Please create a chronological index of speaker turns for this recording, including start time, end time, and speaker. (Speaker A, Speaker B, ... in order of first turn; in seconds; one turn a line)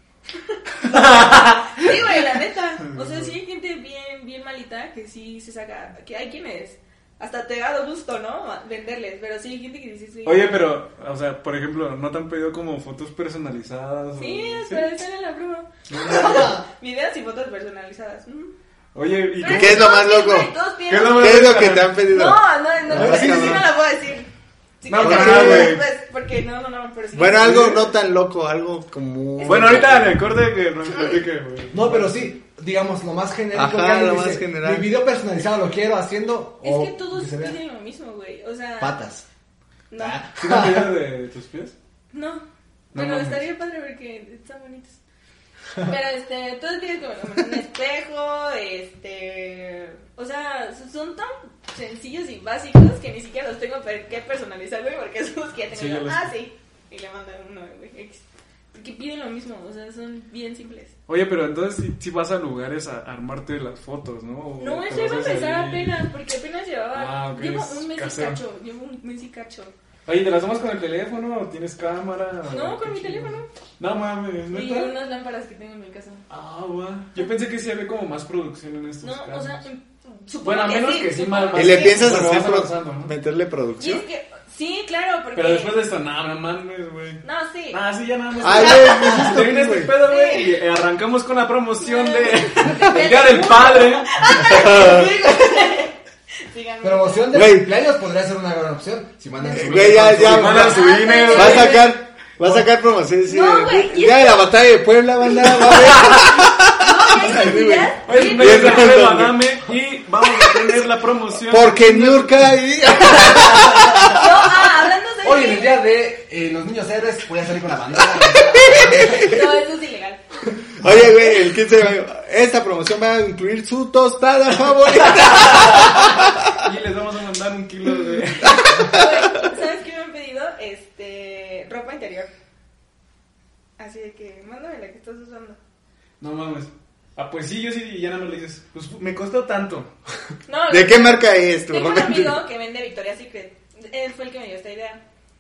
Speaker A: 0.3-10.5
Speaker B: 1.0-1.9
Speaker B: 2.9-3.3
Speaker B: 10.2-14.9
Speaker A: 14.2-18.5
Speaker B: 15.9-16.6
Speaker B: 18.9-19.9
Speaker A: 19.4-21.3
Speaker C: 19.4-20.5
Speaker B: 20.9-22.0
Speaker C: 21.1-23.7
Speaker A: 22.1-24.3
Speaker B: 23.0-23.5
Speaker A: 24.8-27.9
Speaker B: 24.9-25.8
Speaker C: 25.0-25.8
Speaker C: 27.1-30.2
Speaker A: 29.4-30.0
Speaker B: 29.4-32.3
Speaker D: 31.7-37.6
Speaker C: 33.5-34.9
Speaker A: 36.6-39.0
Speaker D: 38.8-39.2
Speaker A: 39.9-40.2
Speaker D: 40.0-40.9
Speaker B: 40.4-41.7
Speaker A: 42.1-45.0
Speaker B: 42.9-43.5
Speaker A: 45.8-60.9
Speaker B: 55.7-56.3
Speaker B: 61.1-66.0
Speaker A: 64.6-69.7
Speaker B: 66.9-68.4
Speaker B: 70.0-74.9
Speaker A: 72.5-73.5
Speaker A: 74.5-76.2
Speaker B: 76.3-79.6
Speaker A: 79.0-82.3
Speaker B: 80.4-83.1
Speaker C: 81.5-84.0
Speaker A: 83.8-85.8
Speaker B: 85.3-94.1
Speaker A: 87.2-87.8
Speaker C: 88.4-90.0
Speaker A: 88.5-89.4
Speaker A: 90.0-90.6
Speaker A: 91.8-97.3
Speaker C: 94.2-95.2
Speaker D: 96.8-100.8
Speaker C: 97.3-97.7
Speaker A: 99.4-99.9
Speaker C: 99.5-109.4
Speaker B: 99.8-102.6
Speaker A: 100.5-101.9
Speaker A: 103.3-104.5
Speaker B: 105.7-106.2
Speaker A: 105.9-106.2
Speaker A: 106.7-109.0
Speaker B: 108.0-113.9
Speaker C: 110.3-110.7
Speaker C: 111.4-114.3
Speaker A: 114.1-115.8
Speaker D: 115.2-119.2
Speaker A: 118.5-120.2
Speaker C: 118.6-119.4
Speaker C: 120.7-126.5
Speaker B: 125.3-125.9
Speaker B: 126.5-129.0
Speaker C: 128.6-129.4
Speaker A: 128.9-132.3
Speaker A: 133.8-135.6
Speaker B: 136.2-139.9
Speaker A: 140.5-145.0
Speaker C: 140.7-142.4